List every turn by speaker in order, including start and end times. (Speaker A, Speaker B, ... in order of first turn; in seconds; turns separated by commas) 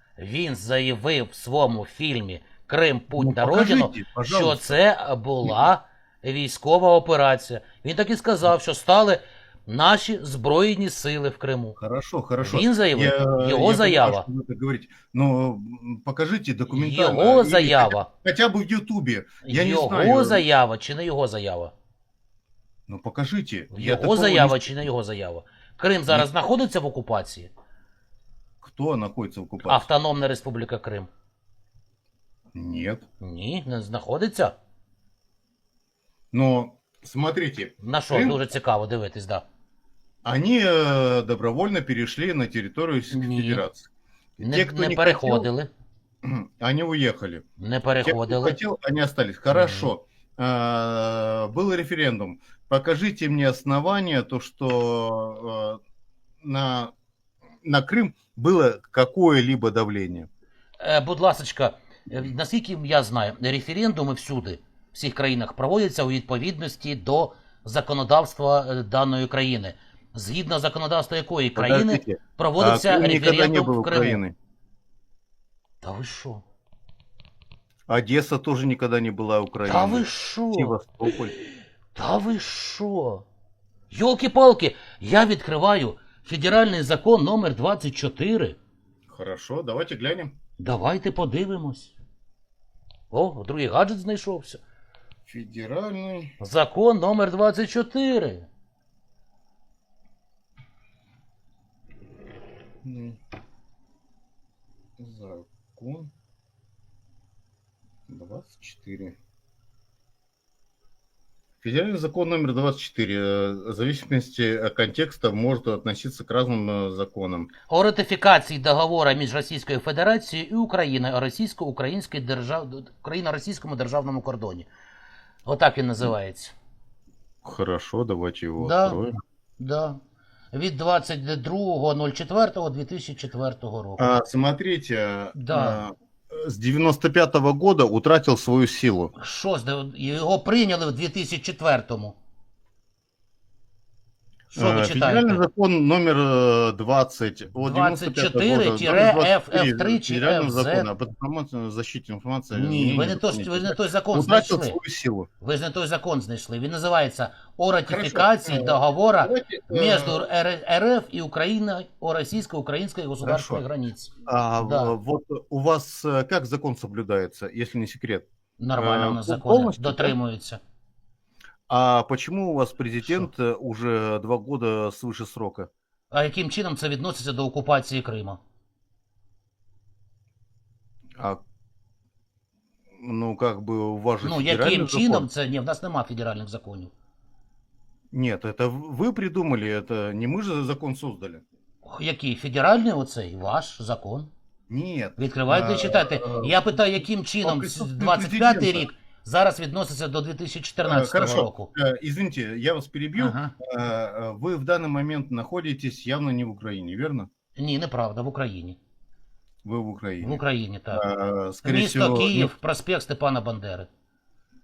Speaker A: 0.2-11.8, Speaker B: 3.1-4.8, Speaker B: 11.8-20.4, Speaker A: 12.4-14.3, Speaker A: 16.7-18.1, Speaker A: 19.4-21.7, Speaker B: 22.9-24.9, Speaker A: 23.7-27.5, Speaker B: 28.6-29.9, Speaker A: 29.6-31.1, Speaker B: 32.5-33.0, Speaker A: 33.2-34.5, Speaker B: 36.3-38.4, Speaker A: 37.8-39.4, Speaker B: 40.2-45.5, Speaker A: 43.1-43.6, Speaker A: 44.4-45.7, Speaker B: 46.2-47.5, Speaker A: 47.6-48.6, Speaker B: 48.0-55.8, Speaker A: 49.5-49.9, Speaker B: 56.4-56.9, Speaker B: 57.6-60.3, Speaker A: 60.8-74.2, Speaker B: 71.6-74.3, Speaker A: 75.8-76.4, Speaker B: 77.9-81.3, Speaker A: 79.7-81.1, Speaker A: 81.9-83.2, Speaker A: 83.9-88.6, Speaker B: 89.1-90.3, Speaker A: 90.6-91.9, Speaker A: 93.1-94.6, Speaker B: 95.3-96.3, Speaker A: 96.4-98.5, Speaker B: 102.8-103.2, Speaker B: 105.0-106.1, Speaker B: 108.1-109.2, Speaker B: 111.6-117.5, Speaker A: 117.7-124.7, Speaker A: 125.5-126.5, Speaker B: 127.4-129.1, Speaker A: 128.6-129.1, Speaker A: 129.6-130.0, Speaker A: 130.5-134.1, Speaker B: 134.0-139.1, Speaker A: 135.3-135.8, Speaker A: 139.2-142.2, Speaker A: 144.5-145.4, Speaker B: 144.6-155.3, Speaker A: 147.6-150.9, Speaker A: 152.5-154.8, Speaker A: 155.4-164.9, Speaker B: 157.9-160.3, Speaker B: 163.2-163.6, Speaker B: 164.3-170.2, Speaker A: 168.6-170.6, Speaker B: 171.7-175.7, Speaker A: 176.1-178.4, Speaker B: 183.0-185.3, Speaker A: 184.2-186.9, Speaker B: 188.1-191.4, Speaker A: 191.8-194.3, Speaker B: 194.7-196.9, Speaker A: 195.2-201.7, Speaker B: 197.4-198.9, Speaker B: 200.8-207.3, Speaker A: 203.2-203.5, Speaker A: 207.6-208.8, Speaker B: 209.6-212.5, Speaker A: 210.2-211.1, Speaker A: 211.6-213.9